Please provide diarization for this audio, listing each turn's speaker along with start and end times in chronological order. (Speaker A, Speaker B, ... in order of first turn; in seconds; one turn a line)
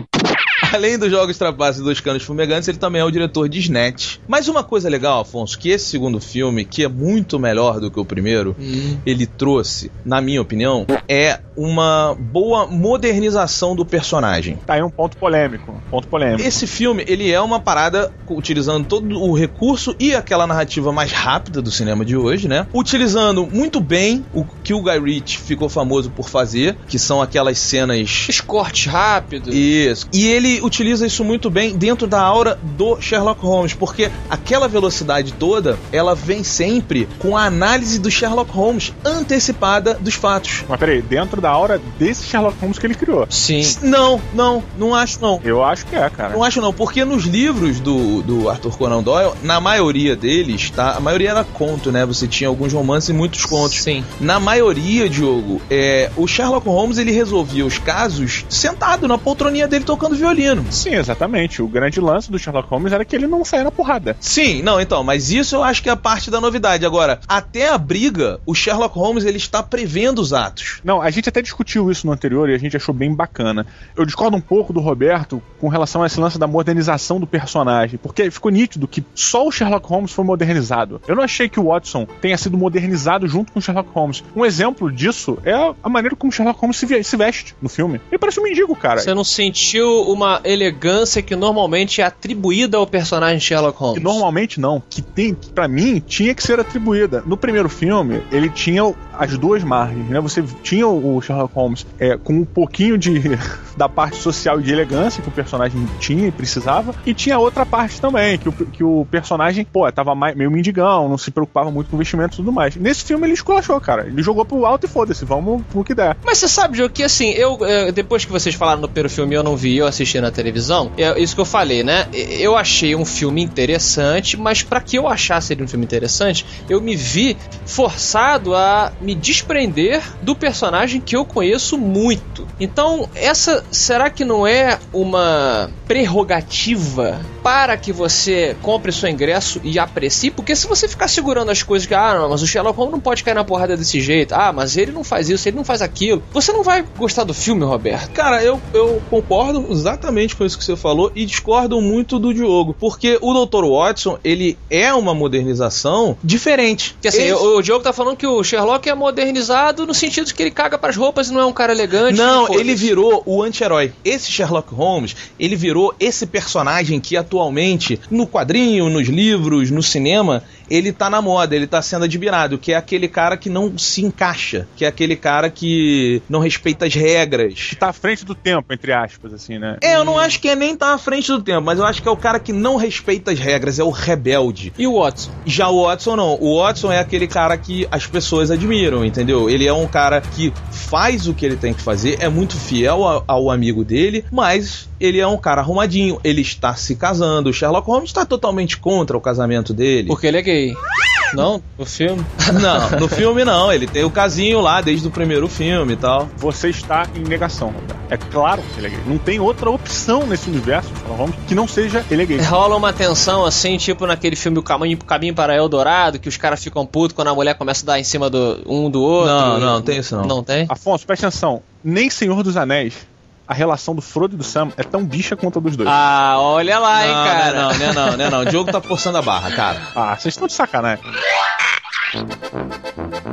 Speaker A: 0.6-14.6
Speaker B: 8.6-9.0
Speaker C: 14.7-16.6
Speaker A: 16.4-28.3
Speaker B: 28.3-29.6
Speaker A: 29.5-40.6
Speaker C: 40.7-43.3
Speaker B: 43.3-43.8
Speaker A: 43.6-45.4
Speaker C: 45.4-46.4
Speaker A: 46.3-60.7
Speaker B: 53.5-54.1
Speaker C: 60.7-64.2
Speaker A: 64.2-70.8
Speaker C: 70.8-89.1
Speaker B: 89.0-94.2
Speaker C: 93.9-116.2
Speaker B: 116.2-148.1
Speaker A: 148.1-157.5
Speaker B: 157.0-162.9
Speaker A: 162.1-177.8
Speaker C: 177.7-179.8
Speaker A: 179.8-184.8
Speaker B: 179.8-180.4
Speaker B: 184.8-185.3
Speaker A: 185.4-200.2
Speaker B: 200.1-200.8
Speaker B: 201.3-203.0
Speaker A: 202.5-206.3
Speaker C: 206.4-212.5
Speaker B: 212.4-220.7
Speaker A: 219.2-220.3
Speaker C: 220.7-226.0
Speaker B: 225.8-228.3
Speaker A: 226.9-229.8
Speaker C: 229.9-231.0